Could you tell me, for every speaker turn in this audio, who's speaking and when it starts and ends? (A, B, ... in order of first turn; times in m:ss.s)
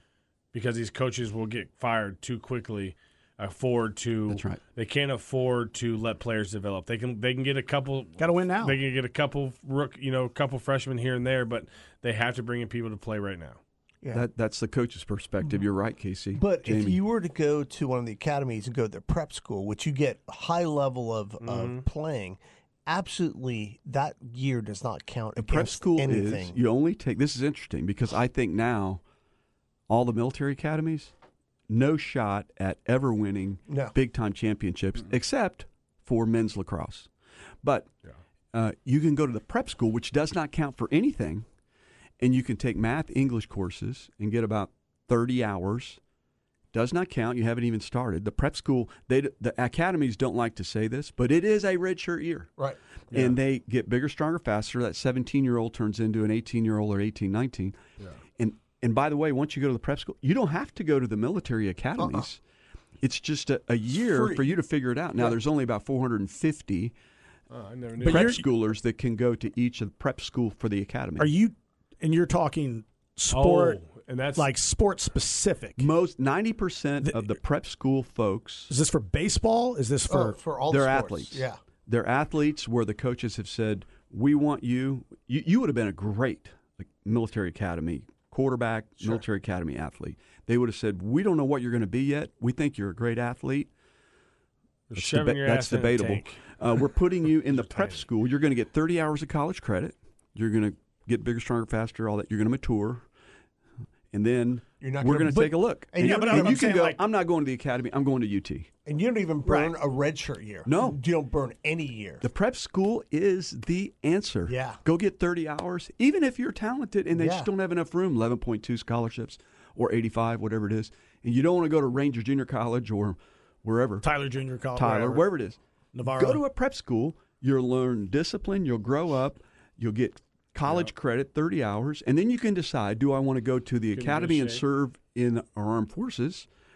0:00.5-0:13.6 A
0:04.3-0:04.6 B
0:08.2-0:08.8 C
0:14.1-0:17.0 B
0:16.3-0:26.6 D
0:21.4-0:21.8 A
0:25.4-0:29.0 B
0:29.9-0:31.1 B
0:31.7-0:37.1 B
0:33.7-0:34.0 D
0:37.6-0:37.9 B
0:38.5-0:41.4 B
0:42.2-0:46.0 B
0:46.7-0:52.5 B
0:53.1-0:53.4 A
0:53.1-0:57.8 B
0:58.4-1:02.4 B
1:02.0-1:02.2 D
1:03.0-1:06.9 B
1:04.0-1:04.5 D
1:07.5-1:08.4 A
1:08.0-1:08.4 C
1:08.0-1:11.3 B
1:11.2-1:13.8 C
1:13.3-1:14.5 A
1:14.4-1:15.9 C
1:15.8-1:18.7 B
1:17.0-1:17.3 C
1:18.7-1:20.4 C
1:20.1-1:21.6 D
1:20.7-1:33.7 B
1:34.9-1:36.6 A
1:34.9-1:43.0 B
1:37.4-1:38.1 A
1:44.1-1:48.7 B
1:44.8-1:46.8 D
1:46.0-1:47.0 C
1:48.8-1:52.3 D
1:49.4-1:49.7 C
1:50.6-1:51.0 B
1:52.2-2:04.0 B
1:54.4-1:54.8 D
1:57.1-1:57.5 D
2:04.0-2:05.3 C
2:04.8-2:16.5 B
2:05.9-2:06.4 C
2:13.9-2:14.6 A